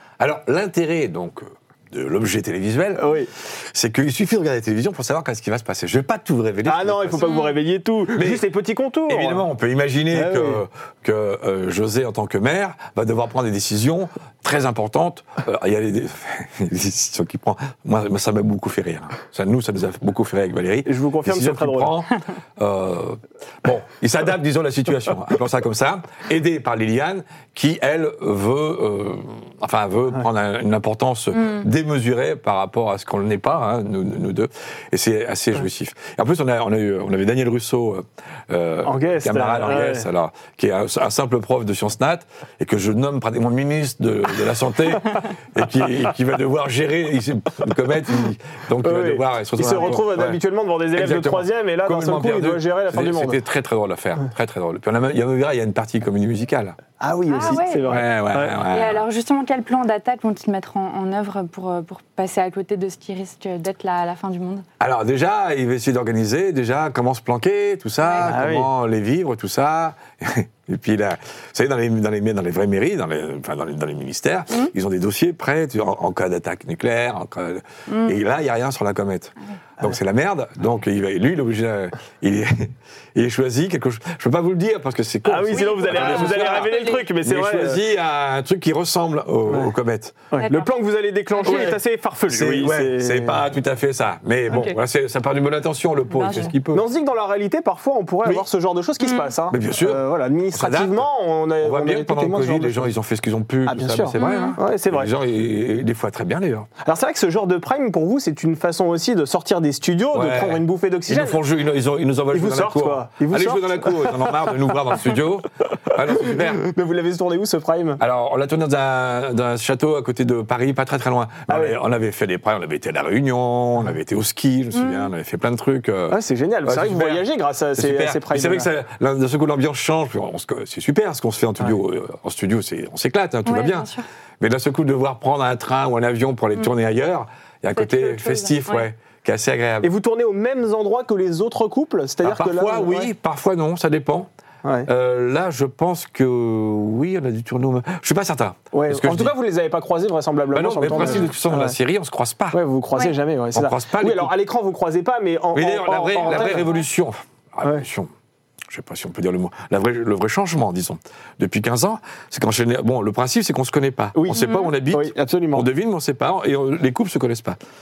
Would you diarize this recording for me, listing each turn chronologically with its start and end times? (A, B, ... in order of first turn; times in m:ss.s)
0:00.2-0:07.4 A
0:03.0-0:03.3 B
0:06.7-0:09.5 B
0:07.2-0:07.5 C
0:08.1-0:08.4 A
0:09.1-0:50.4 A
0:10.1-0:10.6 B
0:20.9-0:22.1 B
0:38.8-0:40.1 B
0:48.8-0:53.4 B
0:49.6-0:50.0 C
0:51.0-0:56.8 A
0:57.0-0:58.6 B
0:57.3-0:58.0 C
0:57.4-0:59.0 A
0:58.7-1:04.7 C
1:04.8-1:30.2 A
1:08.0-1:08.3 C
1:08.3-1:08.7 B
1:17.9-1:18.2 C
1:25.3-1:27.9 B
1:25.5-1:27.1 C
1:29.5-1:29.7 B
1:30.3-1:33.5 B
1:30.4-1:30.7 C
1:31.4-1:31.8 C
1:31.4-1:31.8 A
1:32.3-1:36.8 A
1:36.1-1:36.5 C
1:36.7-1:42.9 B
1:39.0-1:39.3 C
1:39.5-1:40.0 A
1:40.5-1:41.1 A
1:41.6-1:46.7 A
1:43.7-1:45.1 B
1:44.2-1:44.6 C
1:46.8-1:51.4 B
1:50.1-1:56.7 A
1:52.3-1:54.5 B
1:56.3-1:58.0 B
1:58.0-2:07.2 A
2:01.5-2:01.8 B
2:04.8-2:05.1 C
2:06.1-2:08.7 B
2:07.8-2:13.9 A
2:13.5-2:14.0 C
2:14.4-2:19.9 A
2:17.8-2:18.9 C
2:19.8-2:23.1 B
2:22.2-2:24.3 A
2:24.6-2:24.9 B
2:24.9-2:29.4 A
2:28.7-2:31.8 B
2:30.5-2:32.6 A
2:30.9-2:31.3 C
2:32.5-2:36.7 B
2:33.5-2:34.3 A
2:35.5-2:38.1 A
2:36.3-2:36.8 C
2:38.7-2:47.6 A
2:44.2-2:45.7 B
2:44.4-2:44.7 C